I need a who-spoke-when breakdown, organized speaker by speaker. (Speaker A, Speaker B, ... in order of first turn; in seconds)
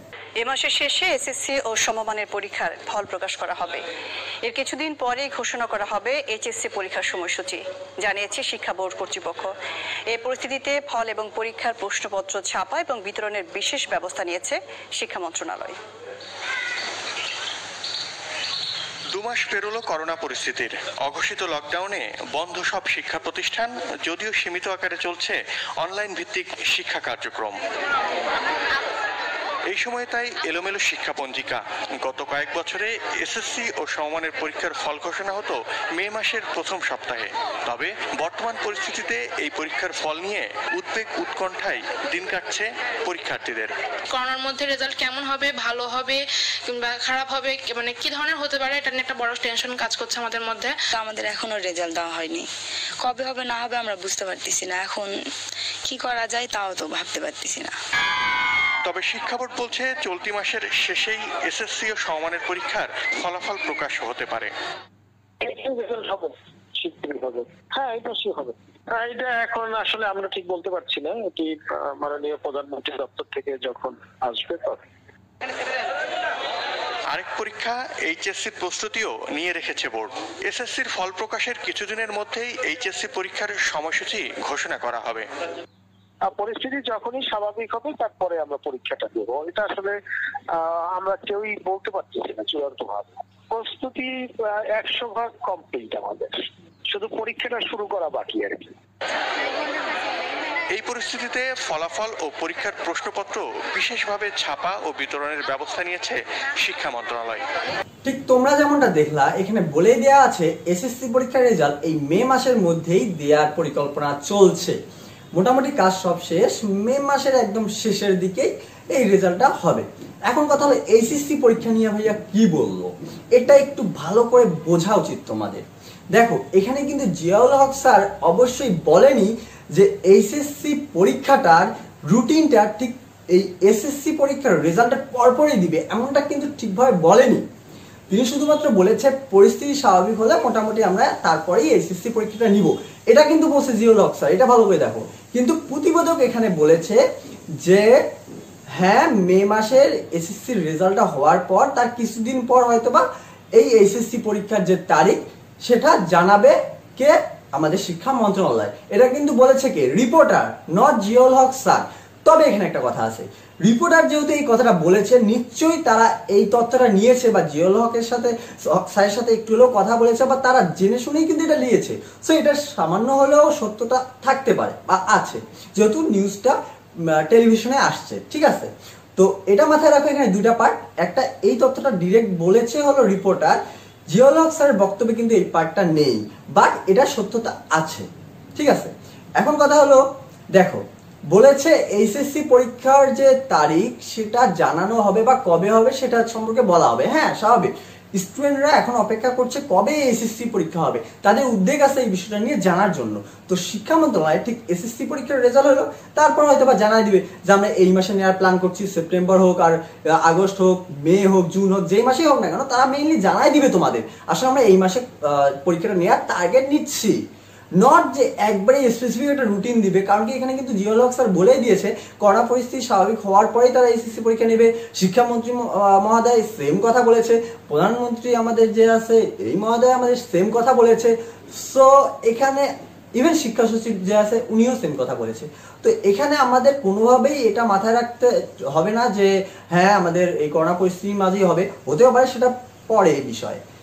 Speaker A: 0.4-3.8, 4.4-9.5, 10.1-15.8
Speaker B: 19.1-27.6, 29.7-43.7, 58.9-64.5, 77.1-85.3, 100.7-107.4
Speaker C: 44.1-50.8
Speaker D: 50.9-52.5, 53.0-55.1, 55.9-57.7
Speaker E: 65.4-74.8, 86.2-90.0, 90.5-98.7
Speaker F: 108.0-114.8, 115.3-125.6, 126.1-137.4, 138.1-147.0, 147.6-148.0, 148.8-153.0, 153.6-176.6, 177.1-217.2, 217.8-243.6